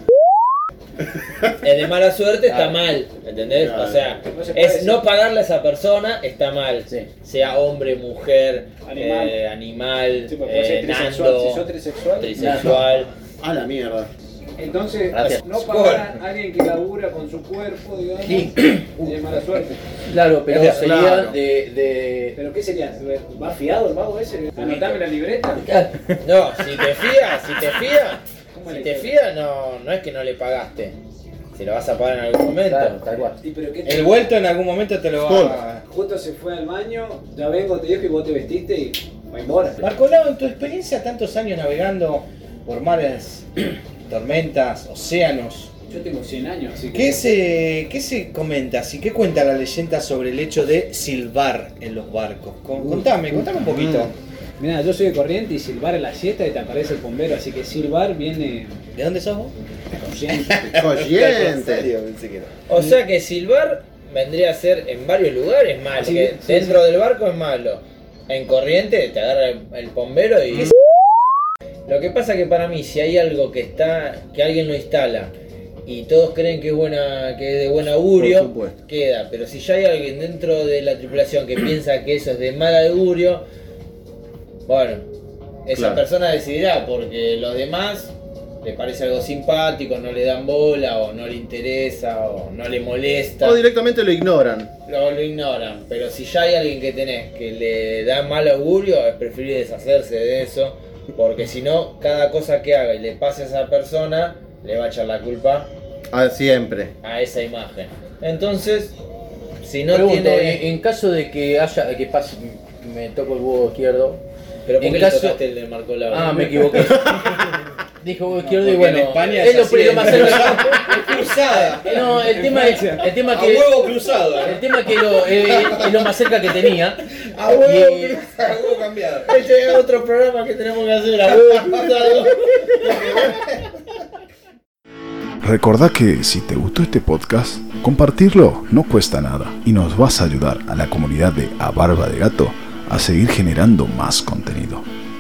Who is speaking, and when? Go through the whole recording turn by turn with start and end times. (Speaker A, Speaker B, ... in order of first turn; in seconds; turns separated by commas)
Speaker A: 1.6-11.7, Speaker B: 3.6-4.0, Speaker C: 4.3-5.0, Speaker C: 8.9-9.4, Speaker C: 10.3-12.3, Speaker A: 12.2-13.1, Speaker D: 12.4-12.8, Speaker B: 12.6-12.8, Speaker B: 13.4-14.1, Speaker C: 14.6-19.8, Speaker D: 15.1-15.4, Speaker E: 15.6-16.1, Speaker D: 20.1-22.4, Speaker E: 20.5-20.9, Speaker B: 20.5-21.4, Speaker C: 22.4-25.6, Speaker D: 25.6-26.1, Speaker A: 26.2-31.0, Speaker C: 28.5-29.1, Speaker A: 31.5-33.0, Speaker D: 32.7-33.4, Speaker C: 33.4-34.4, Speaker E: 33.9-35.8, Speaker B: 35.2-35.6, Speaker C: 35.9-39.9, Speaker E: 39.8-45.7, Speaker C: 45.9-47.3, Speaker E: 46.9-54.1, Speaker C: 52.7-53.5, Speaker B: 53.7-54.1, Speaker C: 54.6-58.8, Speaker E: 59.0-59.5, Speaker C: 60.0-60.6, Speaker E: 60.3-62.5, Speaker B: 60.7-61.9, Speaker A: 62.7-70.7, Speaker C: 66.0-66.8, Speaker A: 71.9-75.3, Speaker A: 75.9-83.4, Speaker B: 78.2-78.8, Speaker A: 84.7-85.0, Speaker A: 85.7-93.6, Speaker B: 85.8-86.0, Speaker B: 93.4-94.7, Speaker A: 94.9-105.7, Speaker B: 106.1-106.9, Speaker A: 107.0-108.9, Speaker A: 109.6-110.6, Speaker D: 109.9-114.2, Speaker A: 114.7-116.5, Speaker D: 114.8-115.4, Speaker D: 116.1-117.3, Speaker D: 118.0-121.0, Speaker E: 118.3-126.1, Speaker D: 121.8-123.7, Speaker C: 121.9-123.0, Speaker D: 124.4-127.0, Speaker A: 127.3-128.7, Speaker D: 127.6-128.2, Speaker E: 128.1-129.3, Speaker A: 129.2-133.4, Speaker E: 132.8-133.6, Speaker F: 135.4-144.8